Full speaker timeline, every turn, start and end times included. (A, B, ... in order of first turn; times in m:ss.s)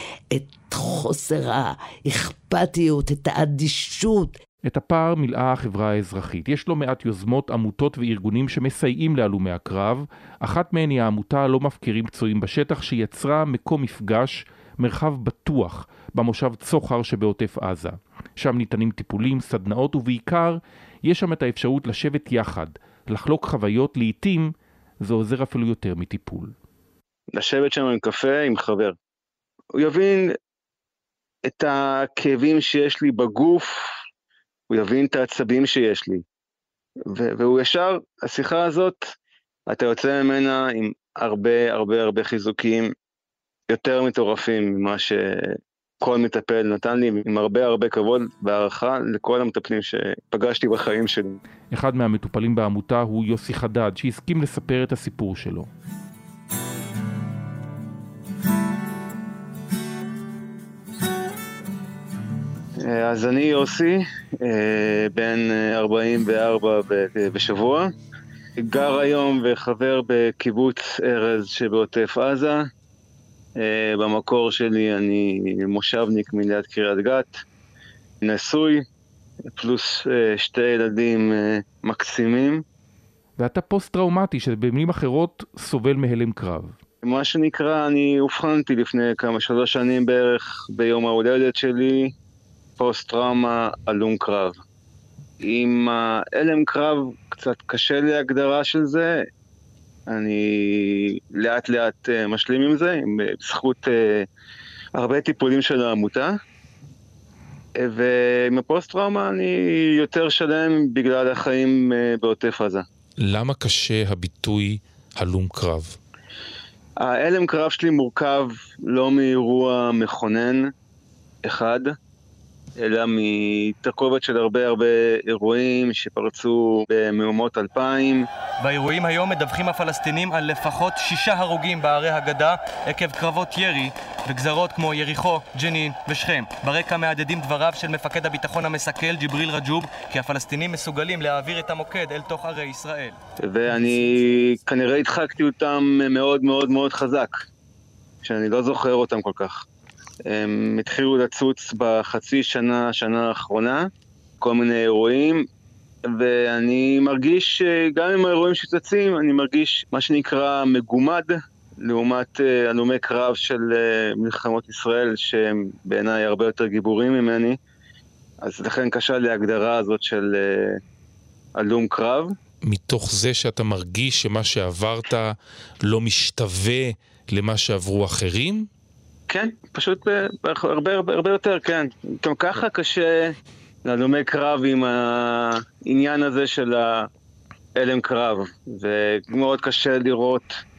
0:00.3-0:04.3 A
0:04.6-0:26.5 B
0:27.3-0:29.0 C
0:29.8-0:30.4 C
0:31.5-0:33.9 C
0:34.7-0:36.2 C
0:37.1-0:39.1 C
0:39.7-0:42.9 C
0:43.7-0:51.4 C
0:51.7-0:55.7 B
1:02.8-1:07.9 C
1:08.6-1:12.7 C
1:13.6-1:17.4 C
1:18.2-1:18.8 C
1:19.5-1:22.6 C
1:23.4-1:26.8 B
1:27.0-1:32.1 C
1:32.8-1:34.6 C
1:35.4-1:39.2 C
1:40.1-1:44.3 C
1:45.0-1:46.4 C
1:47.8-1:52.8 C
1:53.2-1:56.0 B
1:57.0-2:00.7 C
2:01.4-2:01.9 C
2:02.8-2:08.3 C
2:08.6-2:23.2 D
2:23.4-2:27.4 C
2:28.2-2:29.6 C
2:30.2-2:33.9 C
2:34.4-2:35.4 C
2:36.1-2:47.6 C
2:48.4-2:50.8 C
2:51.6-2:52.3 C
2:52.6-2:58.7 B
2:59.3-3:07.1 C
3:07.8-3:10.6 C